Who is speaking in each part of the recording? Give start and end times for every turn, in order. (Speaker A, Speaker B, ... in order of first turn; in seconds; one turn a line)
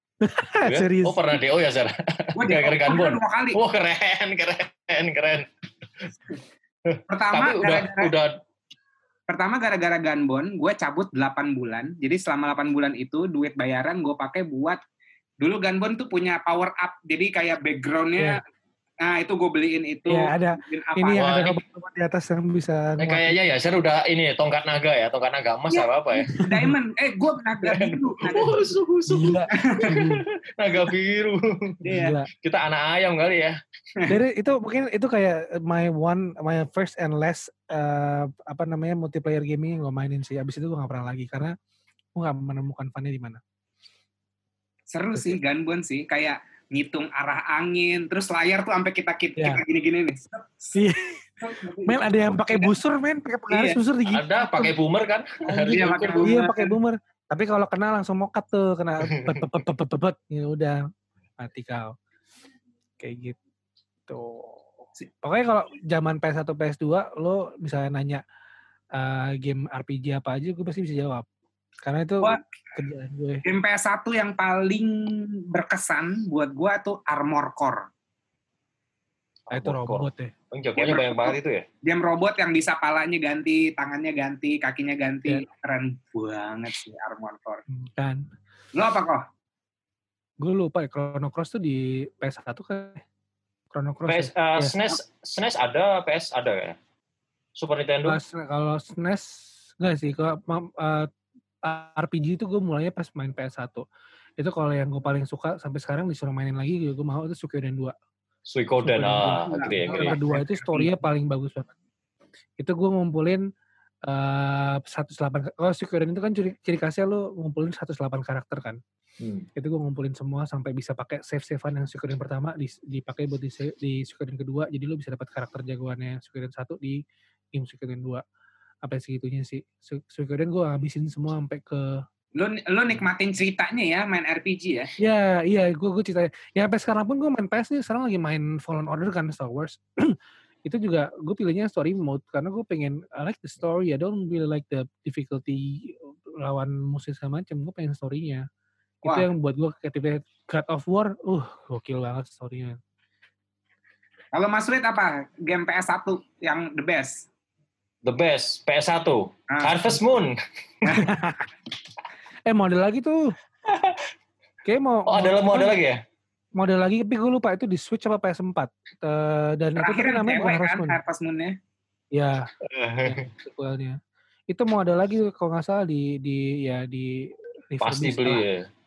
Speaker A: 0.2-1.4
Speaker B: 0.7-5.5
Speaker C: 2.4-3.6
Speaker B: 6.9-8.3
Speaker C: 7.1-8.1
Speaker C: 9.3-14.8
Speaker C: 15.4-18.4
Speaker C: 19.0-21.4
Speaker A: 20.1-23.4
Speaker B: 21.1-21.6
Speaker B: 23.0-26.3
Speaker C: 25.7-28.6
Speaker B: 27.6-31.8
Speaker A: 29.1-30.2
Speaker C: 29.5-30.0
Speaker C: 31.9-32.1
Speaker A: 31.9-32.3
Speaker B: 32.4-33.6
Speaker A: 34.1-41.5
Speaker A: 42.2-43.4
Speaker C: 44.9-50.7
Speaker A: 49.4-49.6
Speaker A: 50.7-51.2
Speaker C: 51.4-52.7
Speaker A: 51.9-54.8
Speaker C: 53.5-53.8
Speaker B: 54.1-56.3
Speaker C: 55.5-56.7
Speaker A: 56.2-60.8
Speaker B: 59.1-59.5
Speaker A: 61.4-62.0
Speaker A: 63.0-63.4
Speaker A: 64.1-64.7
Speaker A: 65.2-68.2
Speaker A: 68.9-71.2
Speaker A: 71.8-73.4
Speaker C: 73.4-77.9
Speaker B: 79.5-81.7
Speaker A: 79.5-80.3
Speaker C: 80.8-87.6
Speaker A: 87.7-88.3
Speaker C: 88.7-89.2
Speaker A: 90.4-93.0
Speaker A: 93.7-94.8
Speaker B: 94.1-96.8
Speaker B: 97.6-98.2
Speaker A: 98.0-101.1
Speaker A: 101.6-103.8
Speaker A: 104.4-107.9
Speaker B: 108.5-110.2
Speaker A: 108.8-111.8
Speaker C: 109.5-110.9
Speaker A: 112.6-113.4
Speaker A: 114.1-118.8
Speaker B: 119.2-119.5
Speaker A: 119.6-127.0
Speaker A: 127.5-128.2
Speaker A: 128.8-132.0
Speaker C: 132.4-134.9
Speaker A: 135.0-148.4
Speaker A: 149.0-152.8
Speaker C: 154.3-157.3
Speaker B: 158.1-160.4
Speaker C: 159.5-160.0
Speaker C: 160.8-161.1
Speaker A: 160.9-161.5
Speaker A: 162.5-163.3
Speaker B: 163.7-164.1
Speaker A: 164.7-165.8
Speaker B: 165.1-166.0
Speaker A: 166.6-171.0
Speaker C: 169.8-171.6
Speaker A: 172.1-172.5
Speaker B: 172.6-173.3
Speaker A: 173.0-178.4
Speaker B: 177.8-178.7